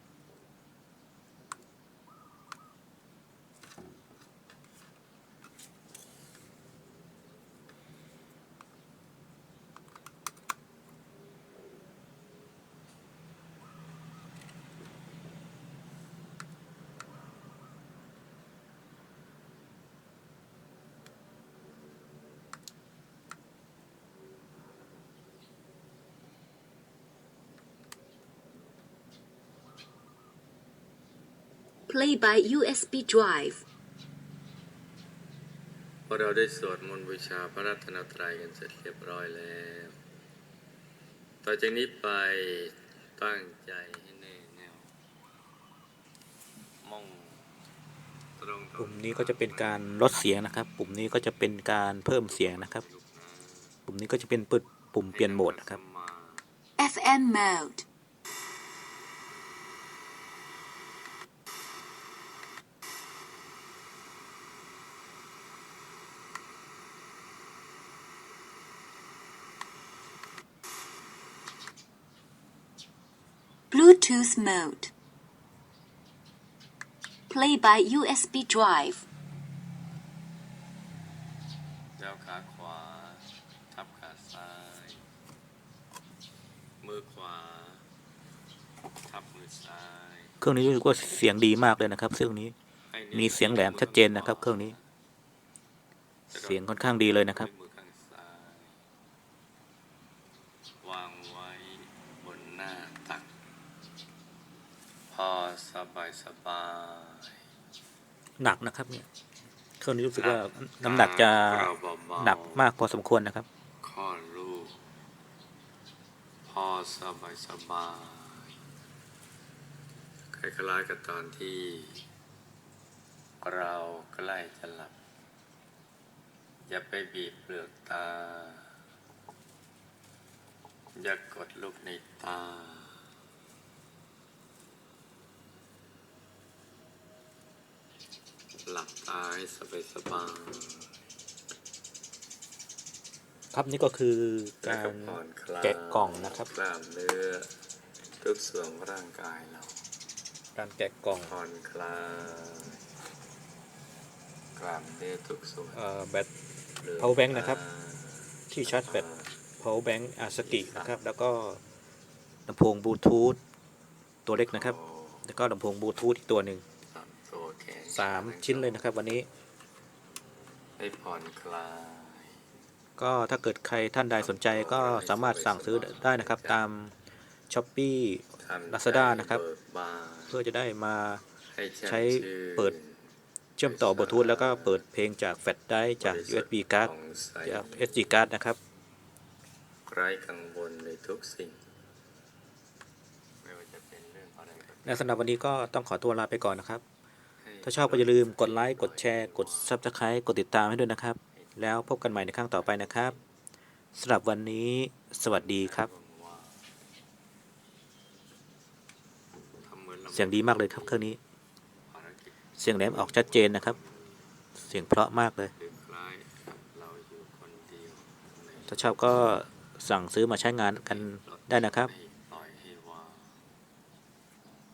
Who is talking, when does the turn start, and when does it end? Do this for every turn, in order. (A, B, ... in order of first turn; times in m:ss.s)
0:31.9-0:33.6 A
0:36.1-0:40.0 B
0:41.4-0:44.9 B
0:46.8-0:47.6 B
0:48.4-0:50.0 B
0:48.8-0:52.8 C
0:52.3-0:53.8 B
0:53.9-0:55.8 C
0:55.1-0:56.4 B
0:56.8-0:57.8 A
1:13.7-1:14.9 A
1:17.3-1:19.0 A
1:22.0-1:25.0 B
1:26.8-1:27.8 B
1:29.0-1:30.4 B
1:30.4-1:32.5 C
1:32.9-1:34.8 B
1:33.1-1:34.7 C
1:36.3-1:37.5 C
1:36.3-1:38.8 B
1:40.8-1:43.3 B
1:45.1-1:47.4 B
1:48.4-1:49.1 C
1:49.8-1:53.4 C
1:50.1-1:52.6 B
1:53.8-1:54.8 B
1:56.4-1:58.6 B
2:00.3-2:02.0 B
2:03.4-2:05.0 B
2:06.6-2:08.7 B
2:10.9-2:13.0 B
2:18.6-2:20.9 B
2:23.5-2:26.5 C
2:24.6-2:27.5 B
2:28.2-2:29.8 B
2:30.5-2:31.3 C
2:31.2-2:32.8 B
2:34.5-2:35.8 B
2:35.7-2:36.3 C
2:36.8-2:39.4 B
2:37.0-2:37.6 C
2:38.5-2:39.0 C
2:39.6-2:41.6 C
2:40.4-2:41.0 B
2:42.5-2:43.4 C
2:44.2-2:46.6 C
2:44.5-2:45.2 B
2:46.8-2:48.8 B
2:47.9-2:49.3 C
2:50.8-2:52.4 B
2:53.0-2:56.9 C
2:54.1-2:56.6 B
2:57.5-2:59.4 C
2:58.4-3:00.4 B
3:00.3-3:01.2 C
3:01.5-3:03.0 B
3:01.8-3:02.7 C
3:03.6-3:06.9 C
3:03.6-3:04.9 B
3:06.0-3:08.0 B
3:07.4-3:08.6 C
3:09.8-3:11.6 B
3:13.4-3:15.3 B
3:14.8-3:16.8 C
3:17.4-3:19.8 B
3:17.6-3:23.2 C
3:21.3-3:21.7 B
3:22.5-3:23.2 B
3:23.9-3:25.9 C
3:25.3-3:26.7 B
3:29.6-3:31.1 B
3:30.1-3:31.2 C
3:31.9-3:34.4 B
3:32.6-3:33.8 C
3:34.6-3:35.5 C
3:35.5-3:39.0 B
3:38.7-3:41.9 C
3:40.8-3:43.4 B